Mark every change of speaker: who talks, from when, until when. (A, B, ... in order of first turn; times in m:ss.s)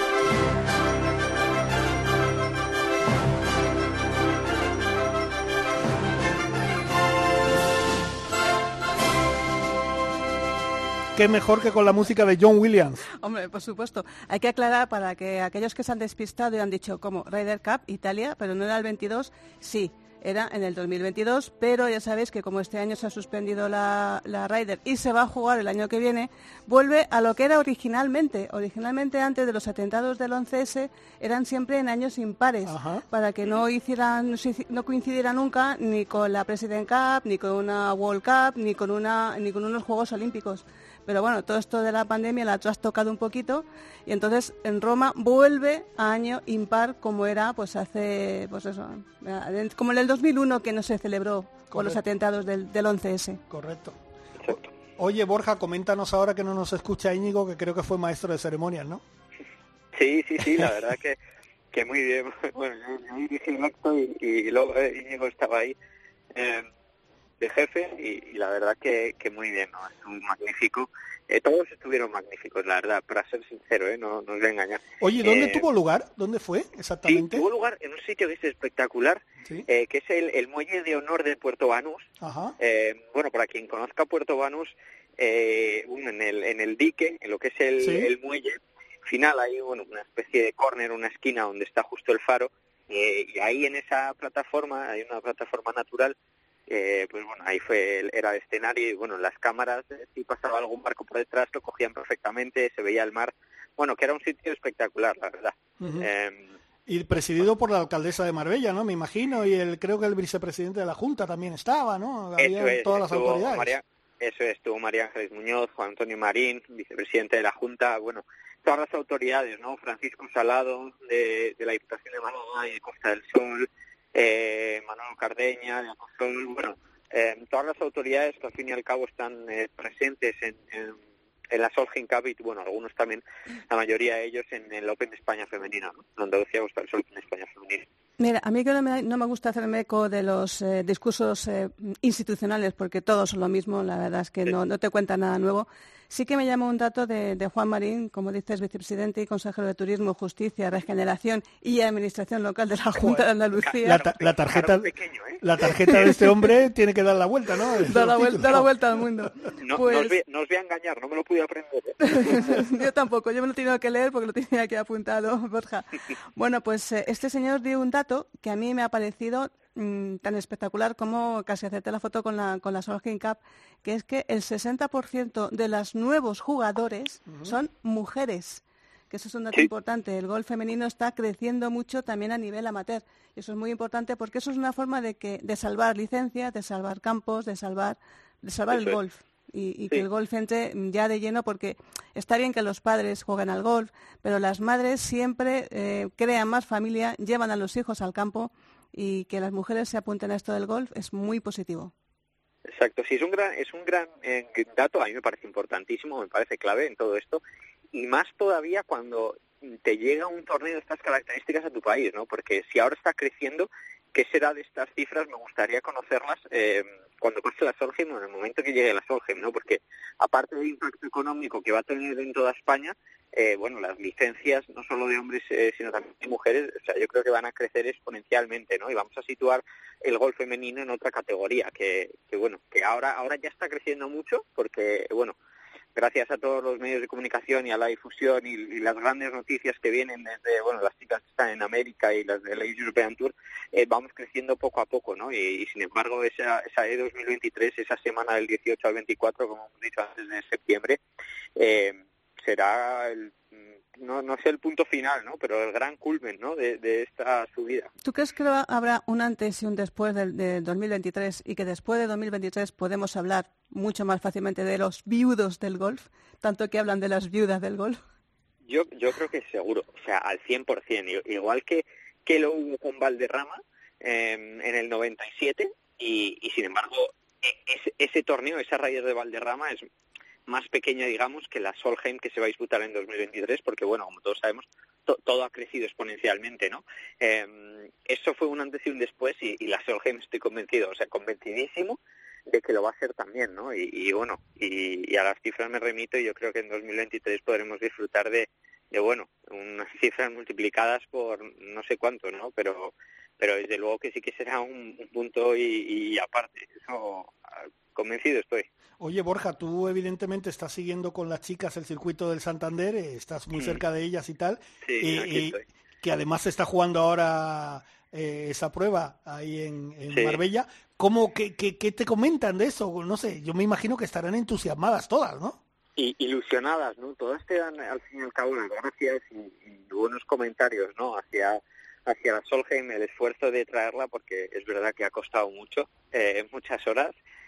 0:11.1-0:13.0 A
0:13.1-0:53.4 B
0:32.6-0:33.0 A
0:51.7-0:52.0 A
0:53.5-0:59.0 A
0:59.9-1:01.2 C
1:01.7-1:05.8 C
1:06.3-1:06.7 C
1:07.4-1:15.6 C
1:15.0-1:17.4 A
1:17.0-1:36.1 C
1:22.2-1:22.5 A
1:27.8-1:28.1 A
1:36.7-1:46.5 C
1:45.8-1:46.1 A
1:46.9-1:53.7 A
1:52.4-2:11.0 C
2:11.5-2:17.8 C
2:18.2-2:34.0 B
2:33.0-2:33.2 A
2:33.6-2:35.4 C
2:33.8-2:38.6 A
2:37.9-2:40.2 B
2:39.6-2:42.7 C
2:42.0-3:21.9 B
2:57.3-2:57.5 A
3:08.7-3:09.0 C
3:22.7-3:27.4 C
3:27.9-3:55.3 C
3:55.9-4:11.0 C
4:11.6-4:17.9 C
4:18.0-4:28.0 B
4:28.6-4:39.8 C
4:40.5-5:07.4 C
5:07.9-5:08.7 C
5:09.0-5:25.6 A
5:14.8-5:15.6 C
5:20.1-5:20.4 C
5:26.0-5:37.1 C